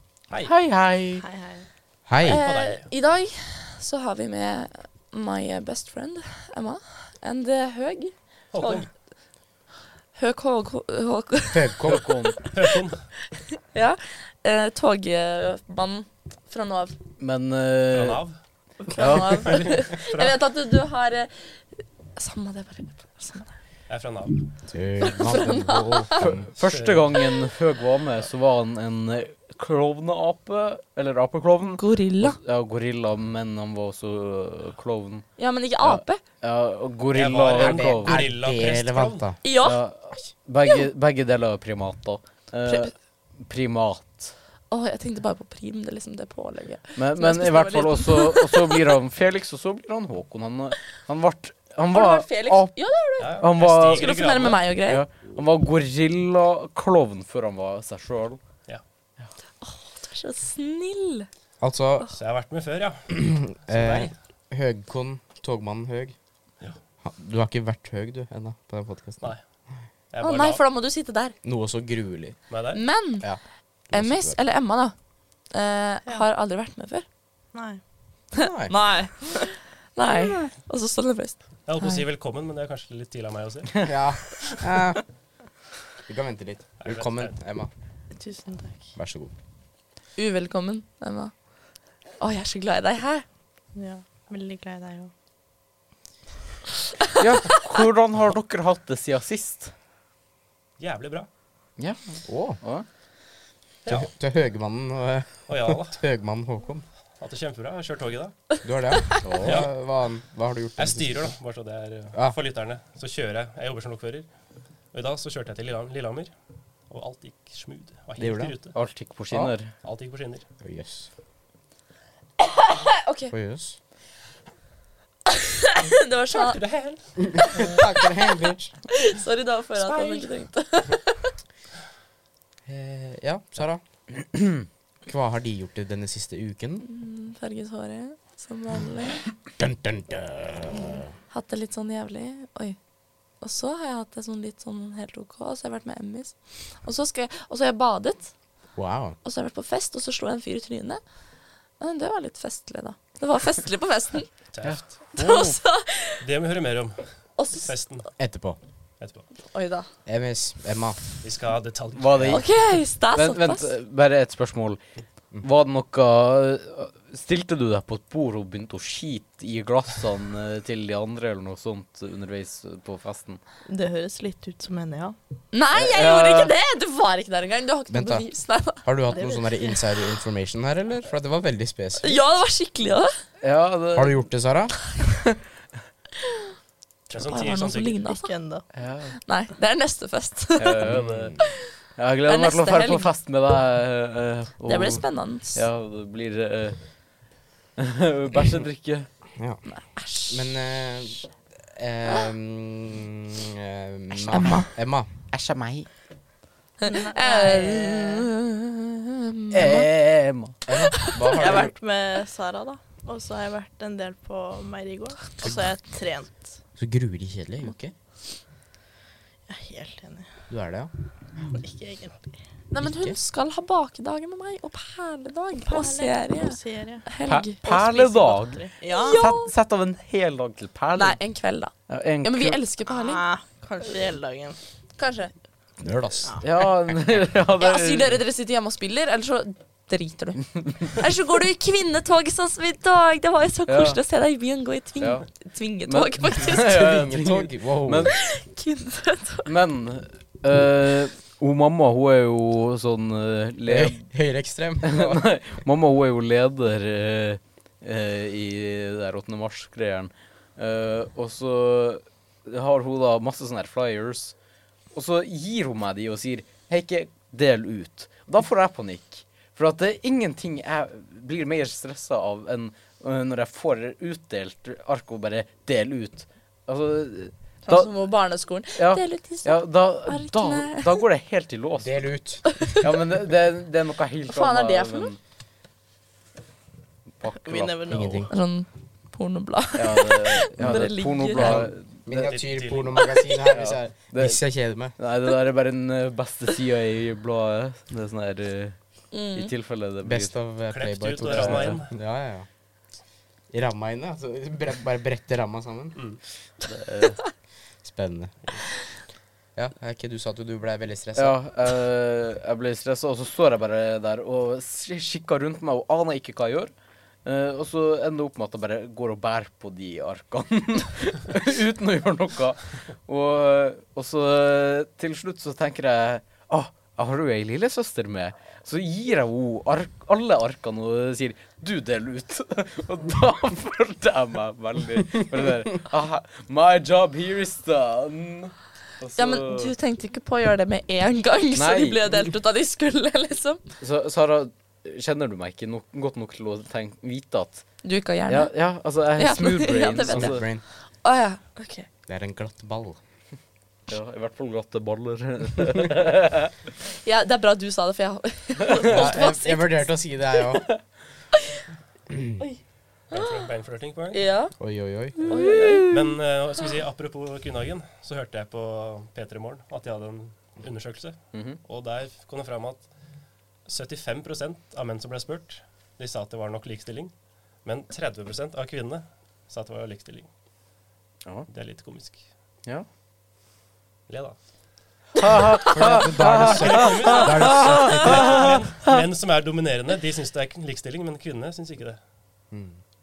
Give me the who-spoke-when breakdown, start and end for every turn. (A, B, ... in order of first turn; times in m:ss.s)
0:00.4-0:01.2 A
0:01.2-0:01.6 B
0:02.1-0:02.4 C
0:02.2-0:08.9 D
0:02.3-0:02.9 E
0:08.5-0:08.9 E
0:10.1-0:12.7 D
0:11.5-0:12.1 C
0:11.9-0:12.4 A
0:12.5-0:13.0 E
0:13.7-0:17.0 D
0:17.2-0:18.2 A
0:17.9-0:18.4 E
0:18.9-0:23.5 D
0:18.9-0:19.7 A
0:19.1-0:20.4 E
0:23.9-0:24.4 E
0:24.7-0:26.4 C
0:25.0-0:26.3 D
0:26.2-0:35.3 A
0:26.6-0:27.2 E
0:31.8-0:32.4 D
0:35.4-0:36.2 D
0:35.8-0:38.3 A
0:37.1-0:39.2 E
0:37.5-0:39.4 C
0:39.4-0:40.8 D
0:39.6-0:44.3 A
0:42.6-0:42.9 D
0:44.7-0:48.9 D
0:47.0-0:52.8 A
0:51.9-0:55.0 D
0:53.2-0:54.6 E
0:53.4-0:54.1 A
0:54.8-0:58.4 A
0:59.6-1:01.3 D
1:01.6-1:02.1 C
1:02.1-1:04.1 E
1:03.1-1:06.2 C
1:07.0-1:09.3 C
1:10.1-1:10.6 E
1:10.2-1:11.3 D
1:11.4-1:12.4 C
1:12.5-1:12.8 E
1:12.7-1:13.3 D
1:13.2-1:14.4 C
1:13.9-1:14.9 D
1:15.5-1:17.0 D
1:17.5-1:17.8 B
1:18.3-1:22.0 D
1:18.4-1:18.7 C
1:21.6-1:24.6 E
1:23.8-1:25.0 C
1:26.1-1:27.7 C
1:26.8-1:27.3 E
1:28.1-1:28.9 B
1:29.0-1:29.3 C
1:30.2-1:31.4 D
1:32.2-1:33.2 D
1:33.7-1:35.1 B
1:37.2-1:39.7 A
1:40.8-1:41.3 E
1:41.8-1:42.8 A
1:42.2-1:42.6 C
1:43.9-1:46.8 C
1:45.5-1:46.0 E
1:47.2-1:48.4 E
1:48.6-1:51.3 C
1:49.4-1:49.7 E
1:50.8-1:54.3 E
1:54.9-1:56.3 E
1:56.9-1:58.8 E
1:58.2-1:58.6 C
1:58.7-1:59.7 A
1:59.3-1:59.5 C
1:59.8-2:00.4 E
2:00.6-2:01.1 C
2:02.4-2:03.3 D
2:03.3-2:03.8 C
2:05.3-2:06.6 D
2:06.3-2:07.8 E
2:07.3-2:08.8 C
2:07.8-2:08.0 D
2:08.9-2:11.3 D
2:09.8-2:10.3 E
2:12.6-2:13.8 C
2:15.0-2:16.8 C
2:16.8-2:19.2 D
2:19.6-2:21.1 C
2:21.3-2:22.8 D
2:23.4-2:28.3 D
2:28.7-2:29.2 C
2:29.2-2:31.0 D
2:31.8-2:34.3 D
2:34.5-2:34.9 E
2:34.6-2:35.6 A
2:35.2-2:36.2 D
2:36.2-2:38.1 E
2:37.4-2:37.7 D
2:38.2-2:38.6 C
2:39.0-2:39.2 E
2:39.4-2:39.9 D
2:40.0-2:41.0 C
2:41.2-2:42.5 E
2:42.0-2:42.5 A
2:42.3-2:43.7 D
2:43.1-2:44.8 A
2:45.4-2:53.4 A
2:53.7-2:55.2 B
2:55.5-2:58.8 D
2:55.7-2:56.5 A
2:57.9-2:58.2 C
2:58.8-3:02.2 C
2:59.1-2:59.5 B
3:02.0-3:03.1 D
3:03.4-3:04.2 A
3:03.9-3:04.8 C
3:07.1-3:08.0 E
3:07.1-3:08.3 D
3:08.0-3:08.6 B
3:08.7-3:09.2 A
3:09.2-3:10.8 D
3:10.6-3:11.4 A
3:10.9-3:11.2 E
3:10.9-3:11.4 C
3:11.4-3:11.7 D
3:11.9-3:16.8 A
3:12.2-3:13.1 D
3:14.6-3:15.6 D
3:17.8-3:19.1 A
3:19.4-3:19.6 C
3:19.7-3:20.5 D
3:20.3-3:25.1 C
3:24.3-3:24.7 D
3:25.3-3:25.9 A
3:26.8-3:28.3 B
3:26.9-3:29.9 D
3:29.5-3:30.6 A
3:30.6-3:31.7 C
3:30.8-3:31.2 D
3:31.3-3:36.6 B
3:35.4-3:35.7 C
3:36.8-3:37.9 C
3:39.5-3:40.3 B
3:40.5-3:40.9 C
3:41.4-3:42.4 B
3:42.7-3:47.6 D
3:42.8-3:43.2 C
3:45.7-3:49.3 B
3:47.3-3:51.2 A
3:48.9-3:49.5 D
3:50.9-3:53.2 D
3:51.9-3:52.6 A
3:52.9-3:54.6 B
3:55.0-3:55.3 D
3:55.8-3:56.3 C
3:56.4-3:58.2 A
3:57.6-4:07.0 D
4:03.7-4:04.0 A
4:05.0-4:05.2 A
4:05.8-4:08.1 A
4:06.3-4:08.1 C
4:08.1-4:09.5 D
4:09.4-4:14.0 A
4:13.6-4:15.3 C
4:14.8-4:24.3 A
4:24.9-4:37.9 A
4:37.6-4:41.0 D
4:38.8-4:42.0 A
4:41.8-4:42.8 C
4:42.5-4:42.8 D
4:42.8-4:45.2 A
4:44.3-4:45.1 D
4:47.2-4:48.2 A
4:47.4-4:48.3 B
4:47.9-4:48.3 C
4:48.3-4:51.6 D
4:49.7-4:52.3 A
4:50.6-4:55.0 C
4:52.2-4:53.1 E
4:53.5-4:54.4 A
4:55.0-4:58.8 A
4:59.1-4:59.5 D
4:59.3-5:00.3 A
5:00.0-5:02.5 C
5:00.7-5:01.9 E
5:01.2-5:01.8 A
5:03.5-5:06.0 C
5:06.6-5:07.2 A
5:07.8-5:08.4 C
5:09.6-5:11.4 C
5:11.2-5:16.7 A
5:17.2-5:39.7 A
5:39.2-5:43.6 D
5:41.5-5:42.0 A
5:43.8-5:47.6 A
5:47.8-5:48.5 D
5:48.3-5:50.4 A
5:49.2-5:51.9 D
5:50.0-5:50.6 C
5:52.1-5:53.0 C
5:53.9-5:56.5 A
5:57.0-5:59.9 D
5:58.6-5:59.1 A
5:58.8-6:00.7 C
6:02.1-6:02.4 C
6:03.1-6:04.2 E
6:04.1-6:04.6 D
6:04.6-6:05.2 C
6:05.2-6:05.9 D
6:05.3-6:05.9 A
6:05.8-6:12.9 E
6:11.3-6:11.6 A
6:13.6-6:17.1 E
6:17.6-6:20.3 E
6:21.5-6:22.2 E
6:24.1-6:24.3 E
6:25.2-6:29.0 A
6:25.7-6:28.5 C
6:26.3-6:32.0 E
6:32.5-6:32.8 C